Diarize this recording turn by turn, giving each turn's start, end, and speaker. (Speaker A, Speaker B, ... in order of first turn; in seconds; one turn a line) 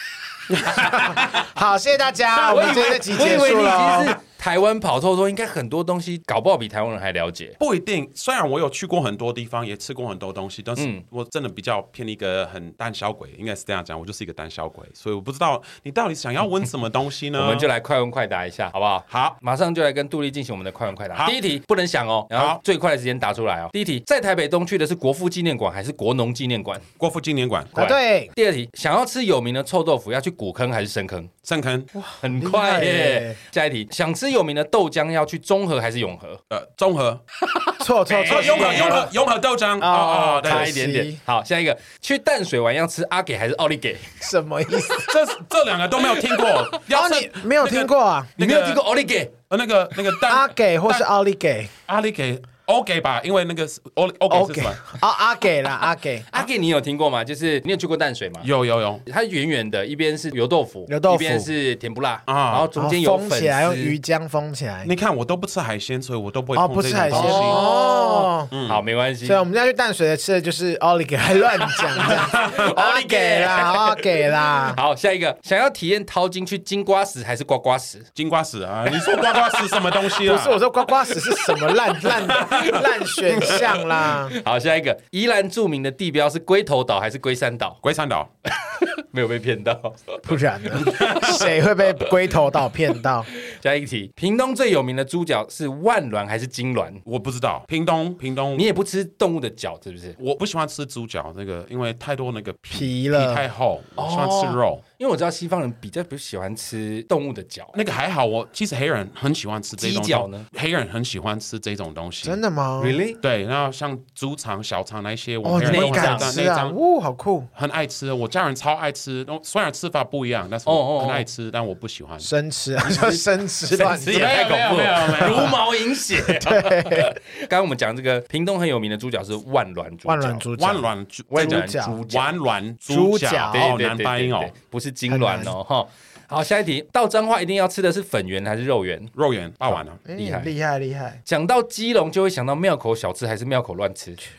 Speaker A: 0.5-1.5
Speaker B: 0.9-4.2
Speaker A: 2.4-3.5
Speaker C: 2.4-7.6
Speaker A: 7.6-17.7
Speaker C: 10.8-11.0
Speaker C: 17.4-26.9
Speaker A: 19.1-19.4
Speaker A: 21.1-21.4
Speaker A: 22.3-22.6
Speaker A: 27.0-27.7
Speaker B: 27.7-28.3
Speaker C: 27.7-31.3
Speaker A: 31.4-31.9
Speaker B: 31.9-33.4
Speaker C: 32.2-36.4
Speaker A: 36.5-37.2
Speaker C: 37.5-39.1
Speaker B: 37.8-39.1
Speaker A: 38.2-40.8
Speaker B: 39.8-41.2
Speaker C: 40.4-44.2
Speaker B: 44.2-45.1
Speaker A: 45.1-48.8
Speaker C: 46.0-46.8
Speaker B: 46.9-48.3
Speaker C: 48.4-49.3
Speaker A: 49.5-51.1
Speaker B: 50.3-51.7
Speaker A: 51.9-54.9
Speaker B: 54.3-56.3
Speaker C: 56.3-58.5
Speaker A: 58.4-59.0
Speaker C: 59.0-64.0
Speaker B: 60.9-61.5
Speaker A: 62.3-62.7
Speaker B: 62.8-64.9
Speaker A: 64.8-67.7
Speaker B: 66.5-68.5
Speaker C: 67.1-69.4
Speaker A: 68.5-68.8
Speaker B: 69.2-74.8
Speaker C: 71.7-78.1
Speaker A: 72.0-72.7
Speaker A: 78.2-80.5
Speaker C: 78.9-80.2
Speaker B: 80.2-84.3
Speaker C: 81.2-87.8
Speaker A: 82.3-82.8
Speaker A: 87.8-88.3
Speaker C: 88.5-91.4
Speaker B: 90.2-93.3
Speaker A: 90.8-91.5
Speaker C: 93.4-97.0
Speaker A: 97.0-98.7
Speaker C: 98.5-100.2
Speaker A: 100.2-104.8
Speaker B: 102.7-103.4
Speaker C: 104.0-107.8
Speaker A: 107.7-112.4
Speaker C: 109.8-110.5
Speaker B: 112.2-113.0
Speaker C: 112.8-113.2
Speaker A: 113.2-116.8
Speaker B: 115.4-117.5
Speaker C: 115.7-116.3
Speaker A: 117.5-122.3
Speaker C: 120.7-121.2
Speaker B: 122.2-124.3
Speaker A: 122.8-125.6
Speaker C: 122.8-130.4
Speaker B: 125.2-125.6
Speaker B: 126.3-127.1
Speaker B: 130.1-132.0
Speaker A: 130.6-134.5
Speaker C: 131.3-132.2
Speaker B: 132.9-133.6
Speaker C: 133.5-139.1
Speaker B: 135.1-135.5
Speaker A: 139.2-140.0
Speaker B: 140.1-141.2
Speaker C: 140.1-140.5
Speaker C: 141.2-144.2